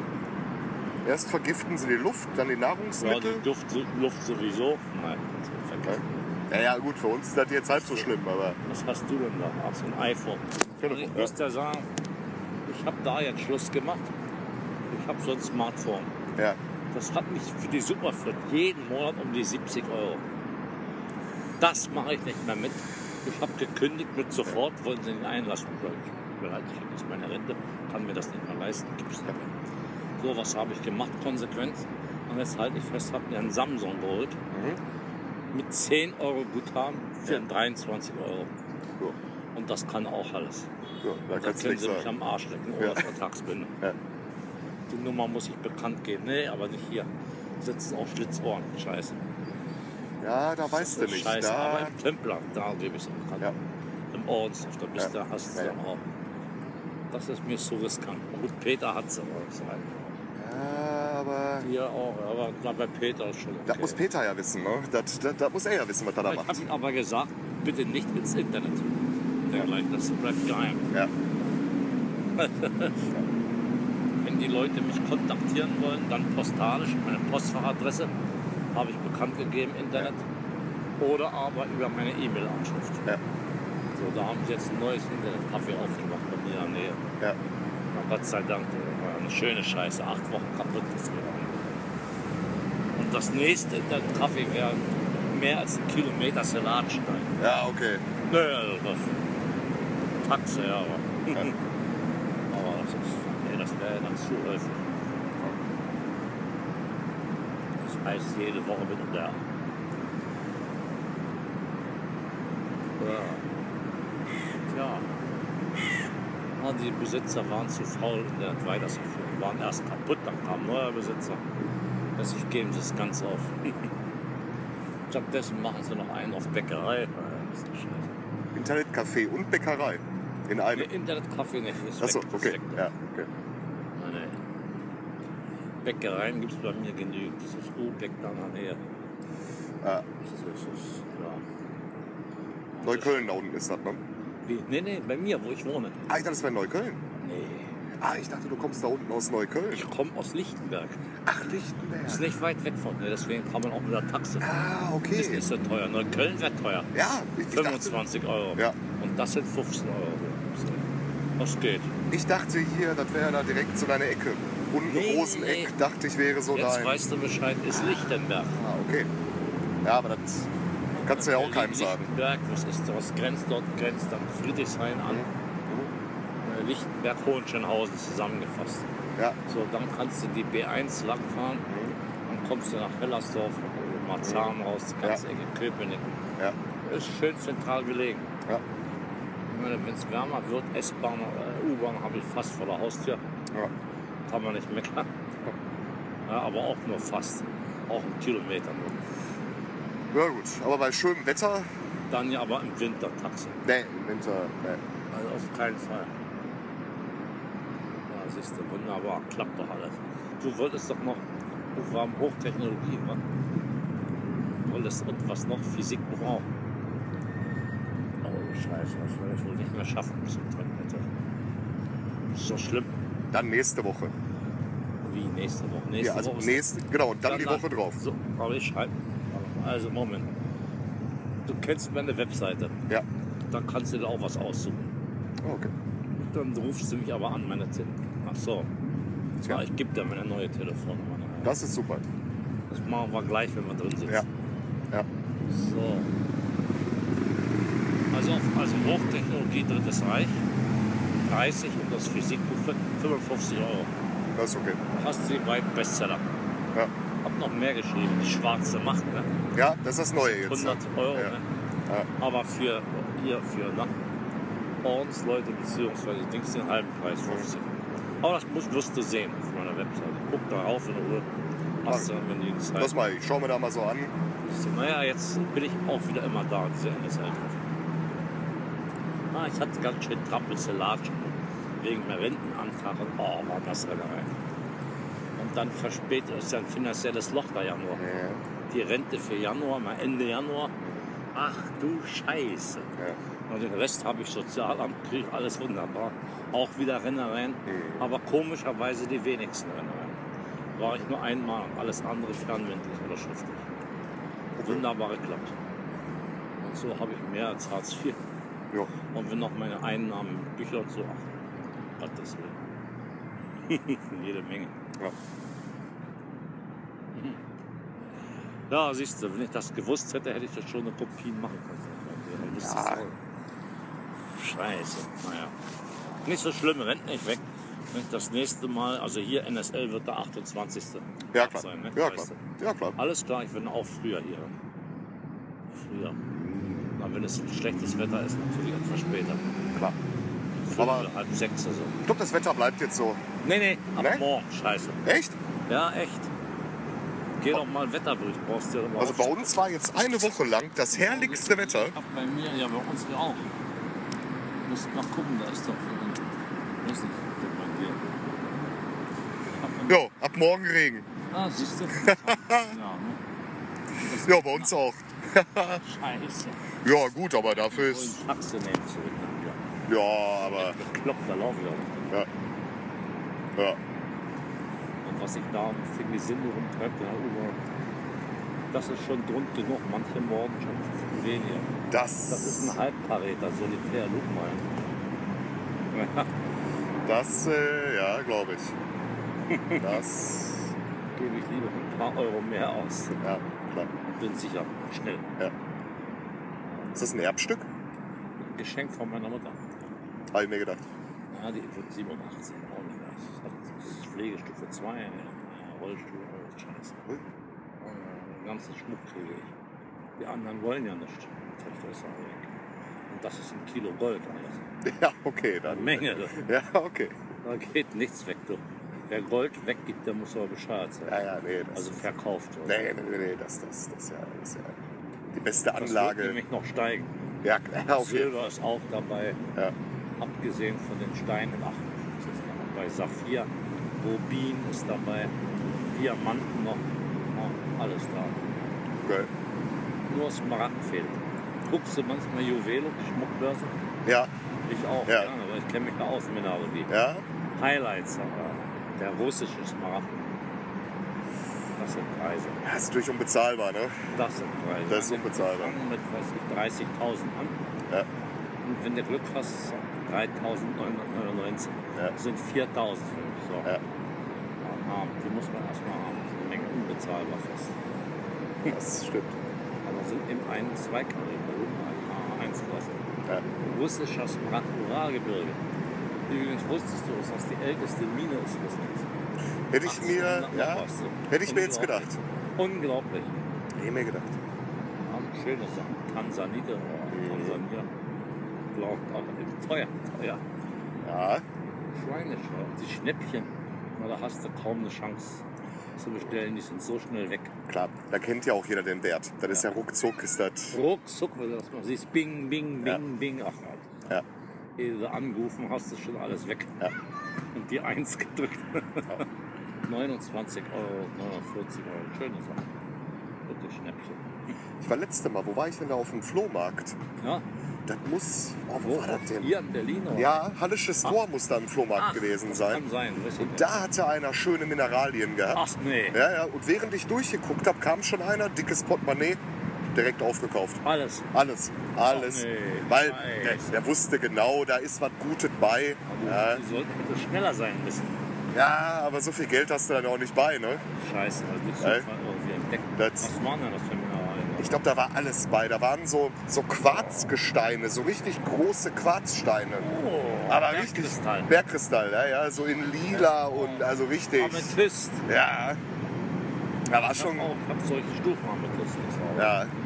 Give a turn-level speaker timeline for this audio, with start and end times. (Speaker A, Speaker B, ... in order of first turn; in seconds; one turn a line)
Speaker A: 1.0-3.4
Speaker B: 3.0-6.3
Speaker A: 5.8-8.6
Speaker B: 8.7-11.9
Speaker A: 10.8-11.3
Speaker B: 12.7-14.1
Speaker B: 14.9-16.1
Speaker B: 16.9-20.2
Speaker B: 21.6-29.5
Speaker B: 30.2-34.4
Speaker A: 34.5-34.8
Speaker B: 35.5-38.5
Speaker B: 39.5-40.7
Speaker A: 41.0-42.1
Speaker B: 41.3-43.8
Speaker A: 42.8-43.1
Speaker B: 44.9-47.1
Speaker B: 47.6-49.2
Speaker A: 50.2-51.9
Speaker B: 50.6-53.5
Speaker B: 54.1-56.0
Speaker A: 55.0-55.8
Speaker B: 57.1-60.1
Speaker A: 60.4-61.7
Speaker B: 61.6-64.0
Speaker A: 63.6-66.6
Speaker B: 66.2-70.9
Speaker B: 72.4-73.1
Speaker B: 74.2-78.1
Speaker B: 78.7-80.2
Speaker B: 81.0-83.1
Speaker B: 83.9-87.0
Speaker B: 87.9-91.7
Speaker B: 93.0-97.3
Speaker A: 97.4-98.1
Speaker B: 98.3-99.2
Speaker B: 100.2-101.6
Speaker B: 102.5-105.0
Speaker B: 107.8-109.4
Speaker B: 113.0-113.5
Speaker B: 114.7-115.1
Speaker B: 116.6-121.4
Speaker B: 122.2-123.9
Speaker B: 125.1-128.2
Speaker A: 128.5-130.9
Speaker B: 130.7-132.9
Speaker A: 132.0-133.3
Speaker B: 133.9-134.4
Speaker B: 135.8-138.8
Speaker B: 140.2-141.4
Speaker B: 142.7-143.3
Speaker A: 142.8-144.0
Speaker B: 144.4-146.0
Speaker A: 146.1-147.0
Speaker B: 147.2-147.8
Speaker A: 148.0-149.9
Speaker B: 149.7-151.0
Speaker A: 151.2-152.3
Speaker B: 152.0-154.5
Speaker A: 154.4-155.4
Speaker B: 155.1-156.9
Speaker A: 156.9-158.0
Speaker B: 157.5-160.9
Speaker B: 161.4-161.9
Speaker A: 162.1-167.0
Speaker B: 164.8-165.7
Speaker B: 166.5-168.6
Speaker A: 167.7-169.1
Speaker A: 169.8-170.5
Speaker B: 171.0-175.2
Speaker A: 171.0-172.1
Speaker A: 175.1-175.9
Speaker B: 176.4-178.9
Speaker B: 179.4-181.7
Speaker A: 181.7-182.0
Speaker B: 182.2-186.1
Speaker A: 184.2-185.2
Speaker B: 186.8-188.3
Speaker B: 189.5-193.2
Speaker B: 194.3-195.1
Speaker B: 196.2-199.0
Speaker A: 200.1-201.7
Speaker B: 202.1-203.6
Speaker A: 203.6-204.8
Speaker B: 205.1-206.1
Speaker B: 208.1-213.2
Speaker B: 214.6-216.5
Speaker B: 218.2-221.1
Speaker B: 222.3-222.9
Speaker A: 223.3-224.1
Speaker B: 225.0-226.7
Speaker A: 226.0-228.0
Speaker B: 227.2-230.3
Speaker B: 231.4-232.8
Speaker B: 233.5-234.9
Speaker A: 235.4-235.7
Speaker B: 236.2-238.7
Speaker B: 239.4-241.5
Speaker A: 241.4-242.0
Speaker B: 242.7-244.2
Speaker B: 245.5-246.1
Speaker B: 248.1-250.4
Speaker B: 251.2-253.9
Speaker A: 254.3-254.8
Speaker B: 254.9-256.2
Speaker B: 257.2-259.3
Speaker A: 259.6-261.4
Speaker B: 260.2-261.5
Speaker B: 262.2-263.9
Speaker B: 264.8-271.3
Speaker B: 271.8-272.9
Speaker A: 272.8-274.1
Speaker B: 274.4-277.7
Speaker B: 279.3-284.4
Speaker B: 285.4-288.0
Speaker A: 288.0-288.4
Speaker B: 288.7-290.8
Speaker B: 291.3-292.9
Speaker B: 293.5-300.2
Speaker A: 297.7-298.0
Speaker B: 300.8-303.7
Speaker A: 304.6-304.8
Speaker B: 304.6-305.6
Speaker B: 306.6-308.2
Speaker B: 309.1-311.3
Speaker B: 311.9-312.6
Speaker B: 313.7-314.8
Speaker B: 317.1-317.4
Speaker B: 318.7-323.1
Speaker A: 322.6-323.1
Speaker B: 324.3-325.6
Speaker B: 326.2-332.4
Speaker A: 331.3-333.0
Speaker B: 332.9-334.5
Speaker B: 335.7-336.2
Speaker B: 337.0-339.4
Speaker B: 340.6-342.0
Speaker A: 340.7-341.1
Speaker A: 342.1-343.2
Speaker B: 343.4-345.0
Speaker A: 343.9-344.2
Speaker A: 345.0-345.4
Speaker B: 345.7-346.3
Speaker B: 347.4-349.6
Speaker A: 349.0-351.9
Speaker B: 350.9-353.5
Speaker B: 354.6-358.0
Speaker B: 359.5-360.1
Speaker A: 359.9-361.1
Speaker B: 361.3-363.2
Speaker A: 362.0-362.7
Speaker B: 363.9-364.7
Speaker A: 364.1-365.8
Speaker B: 365.7-366.7
Speaker A: 366.8-368.2
Speaker B: 367.7-369.6
Speaker A: 369.9-370.8
Speaker B: 370.4-372.2
Speaker B: 375.0-377.6
Speaker B: 378.7-381.7
Speaker A: 381.9-382.8
Speaker B: 382.3-384.7
Speaker B: 385.9-386.3
Speaker A: 387.1-388.8
Speaker B: 389.5-390.0
Speaker A: 389.7-390.7
Speaker B: 391.1-393.2
Speaker A: 393.2-393.9
Speaker B: 394.1-395.3
Speaker A: 396.9-397.7
Speaker B: 398.4-399.6
Speaker A: 400.3-400.8
Speaker B: 401.3-407.1
Speaker B: 407.8-409.5
Speaker B: 410.2-412.5
Speaker B: 413.1-414.8
Speaker A: 414.8-417.2
Speaker B: 415.6-416.4
Speaker B: 417.4-422.9
Speaker A: 421.1-422.1
Speaker A: 422.6-424.8
Speaker A: 425.3-426.4
Speaker B: 425.8-427.1
Speaker A: 427.4-428.3
Speaker B: 427.9-429.4
Speaker B: 430.2-435.3
Speaker B: 435.9-438.4
Speaker A: 439.0-439.3
Speaker B: 440.1-443.8
Speaker A: 444.1-444.3
Speaker B: 444.7-446.9
Speaker A: 445.1-445.3
Speaker A: 446.9-447.2
Speaker B: 447.6-450.3
Speaker B: 451.8-452.6
Speaker A: 452.6-453.9
Speaker B: 454.1-457.6
Speaker A: 454.9-455.8
Speaker B: 458.6-463.8
Speaker B: 464.6-467.8
Speaker A: 468.6-469.4
Speaker B: 469.8-473.0
Speaker B: 473.6-475.6
Speaker B: 476.3-479.1
Speaker A: 479.7-482.2
Speaker B: 479.8-483.4
Speaker A: 483.7-484.4
Speaker B: 485.0-487.9
Speaker A: 487.1-487.6
Speaker B: 488.7-490.4
Speaker A: 491.0-491.4
Speaker B: 491.9-495.4
Speaker B: 496.0-497.6
Speaker A: 497.7-500.8
Speaker B: 500.7-503.9
Speaker B: 504.8-506.9
Speaker B: 507.5-509.3
Speaker B: 509.9-512.7
Speaker B: 513.5-514.5
Speaker A: 514.8-517.0
Speaker B: 517.2-517.5
Speaker A: 517.9-519.5
Speaker B: 518.8-520.4
Speaker A: 520.1-522.8
Speaker B: 522.0-523.7
Speaker A: 523.4-529.4
Speaker B: 525.5-526.2
Speaker A: 529.9-536.6
Speaker B: 530.8-531.3
Speaker B: 532.0-533.7
Speaker B: 536.1-538.2
Speaker A: 538.5-540.9
Speaker B: 540.9-544.8
Speaker A: 541.8-542.1
Speaker A: 543.0-543.3
Speaker A: 544.6-549.9
Speaker B: 549.8-551.5
Speaker A: 550.5-555.8
Speaker B: 553.1-555.2
Speaker A: 556.9-557.5
Speaker B: 557.1-559.5
Speaker A: 559.4-559.7